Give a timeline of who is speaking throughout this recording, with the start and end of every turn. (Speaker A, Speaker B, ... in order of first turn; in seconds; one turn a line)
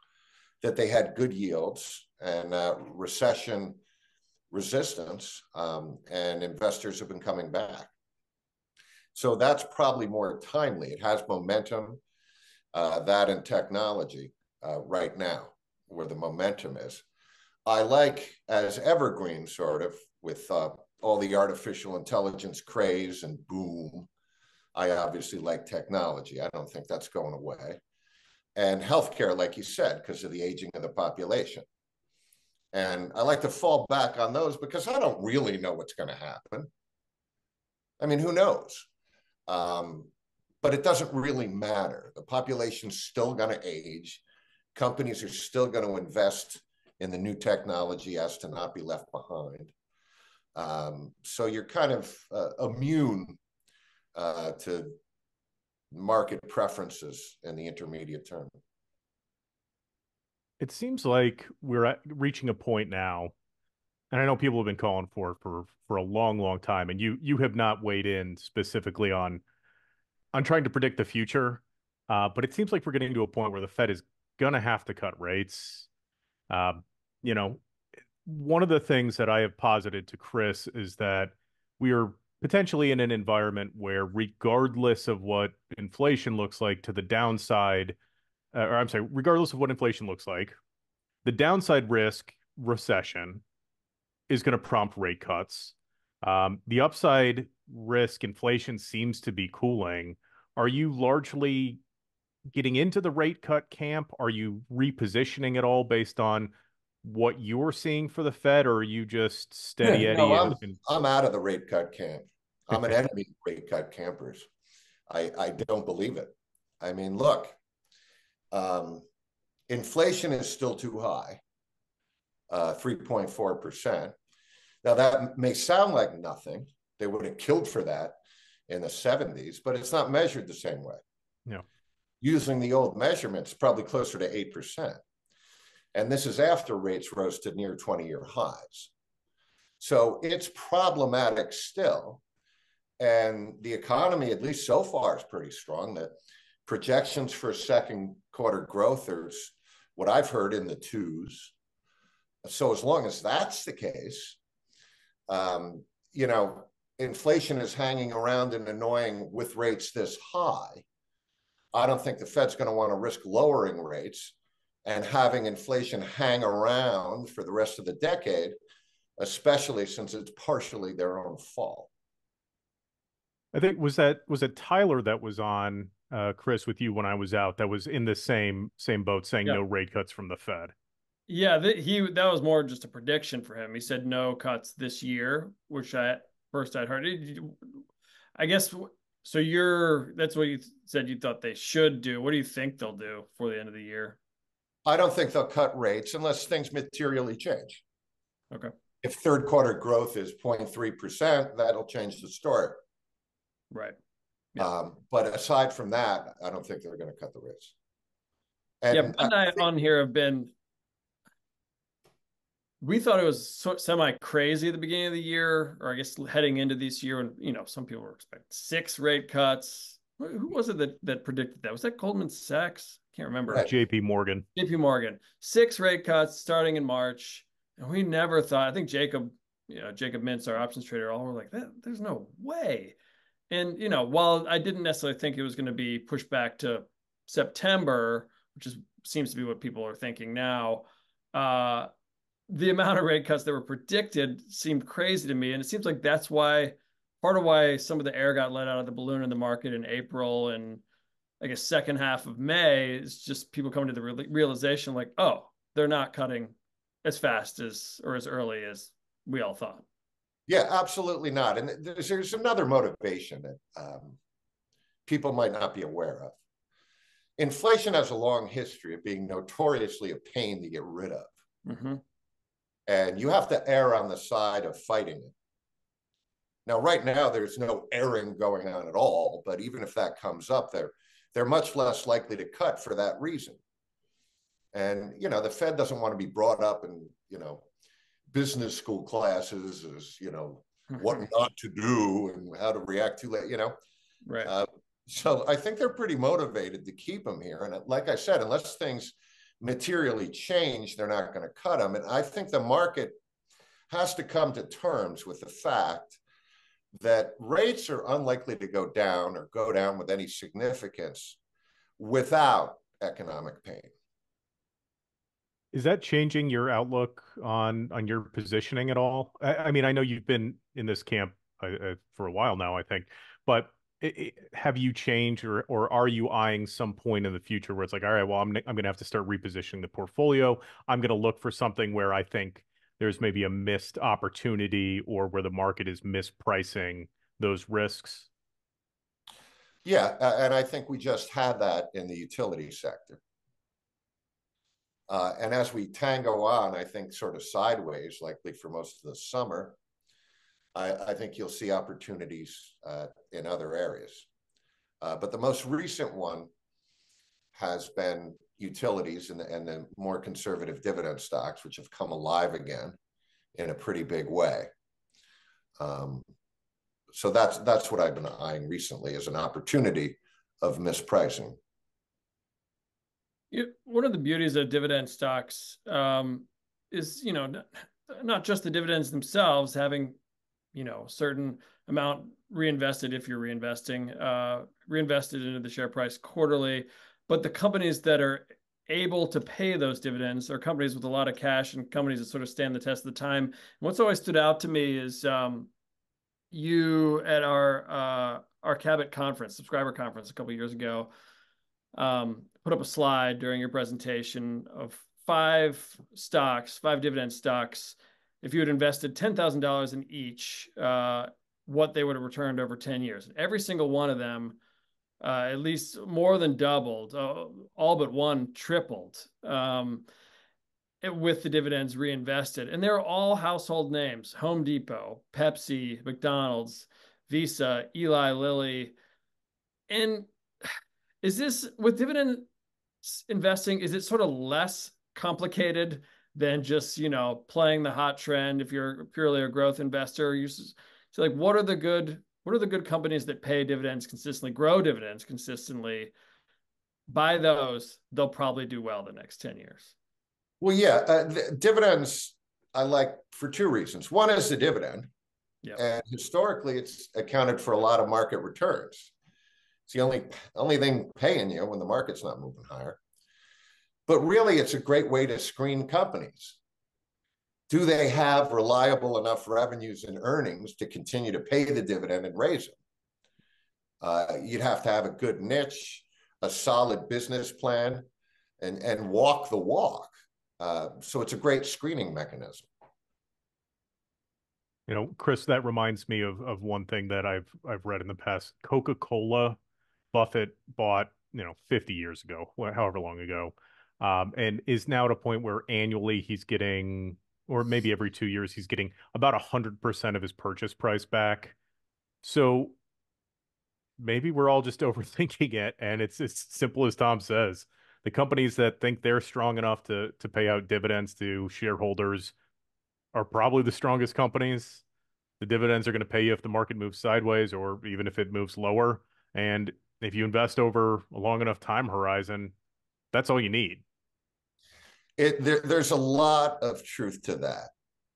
Speaker A: 0.6-3.8
Speaker A: 4.5-7.9
Speaker A: 9.1-12.0
Speaker A: 12.7-17.0
Speaker A: 17.6-24.1
Speaker A: 24.7-27.8
Speaker A: 28.6-31.6
Speaker A: 32.7-36.7
Speaker A: 38.0-38.9
Speaker A: 39.5-40.1
Speaker A: 40.6-44.2
Speaker A: 44.7-49.7
Speaker A: 50.5-53.4
Speaker A: 54.1-55.0
Speaker A: 55.9-58.5
Speaker B: 60.6-63.3
Speaker B: 64.1-69.4
Speaker B: 70.3-75.9
Speaker B: 76.5-77.6
Speaker B: 78.2-88.0
Speaker B: 88.5-90.5
Speaker B: 91.2-93.4
Speaker B: 94.3-101.8
Speaker B: 102.5-106.5
Speaker B: 107.0-110.8
Speaker A: 109.9-114.5
Speaker A: 115.1-117.5
Speaker A: 118.5-119.0
Speaker A: 119.7-121.4
Speaker A: 122.5-124.1
Speaker A: 124.8-128.2
Speaker A: 128.7-131.0
Speaker A: 132.2-135.0
Speaker A: 135.9-138.9
Speaker A: 139.8-142.2
Speaker A: 143.0-146.1
Speaker A: 146.7-151.5
Speaker A: 152.4-154.4
Speaker A: 155.3-160.8
Speaker A: 161.7-164.3
Speaker A: 164.8-168.6
Speaker A: 169.2-171.9
Speaker B: 173.5-180.7
Speaker C: 181.3-187.8
Speaker C: 188.4-194.2
Speaker A: 194.8-197.8
Speaker A: 199.0-202.8
Speaker C: 203.7-203.9
Speaker A: 204.6-207.7
Speaker A: 208.8-209.6
Speaker C: 208.9-210.5
Speaker C: 212.8-223.7
Speaker B: 223.5-224.4
Speaker C: 224.5-232.9
Speaker C: 233.5-241.9
Speaker C: 242.5-250.8
Speaker C: 251.4-259.8
Speaker A: 260.5-264.2
Speaker A: 265.1-266.4
Speaker A: 267.4-271.3
Speaker C: 271.6-272.0
Speaker A: 272.9-275.3
Speaker A: 276.6-283.6
Speaker A: 284.7-287.6
Speaker A: 288.3-293.7
Speaker C: 294.2-294.5
Speaker A: 294.4-303.2
Speaker A: 303.9-306.2
Speaker A: 307.0-311.4
Speaker A: 312.0-313.9
Speaker B: 315.7-338.3
Speaker A: 339.8-343.2
Speaker A: 345.1-349.8
Speaker A: 350.7-354.2
Speaker A: 355.0-356.5
Speaker A: 357.5-363.0
Speaker A: 363.6-364.7
Speaker A: 365.8-366.2
Speaker A: 367.1-371.6
Speaker C: 373.5-380.2
Speaker C: 380.7-395.7
Speaker C: 396.5-401.1
Speaker C: 401.9-414.6
Speaker C: 415.2-420.0
Speaker C: 421.0-428.9
Speaker C: 429.9-430.3
Speaker C: 431.2-432.5
Speaker C: 433.0-446.1
Speaker C: 447.1-449.9
Speaker A: 450.6-455.1
Speaker A: 455.8-459.1
Speaker A: 459.9-463.0
Speaker A: 464.1-466.6
Speaker A: 467.7-472.8
Speaker A: 474.0-478.1
Speaker A: 478.6-482.7
Speaker B: 484.9-489.6
Speaker B: 490.1-501.5
Speaker B: 502.2-502.7
Speaker B: 504.0-512.3
Speaker B: 513.1-514.8
Speaker B: 515.4-522.5
Speaker B: 523.1-523.8
Speaker A: 525.2-527.7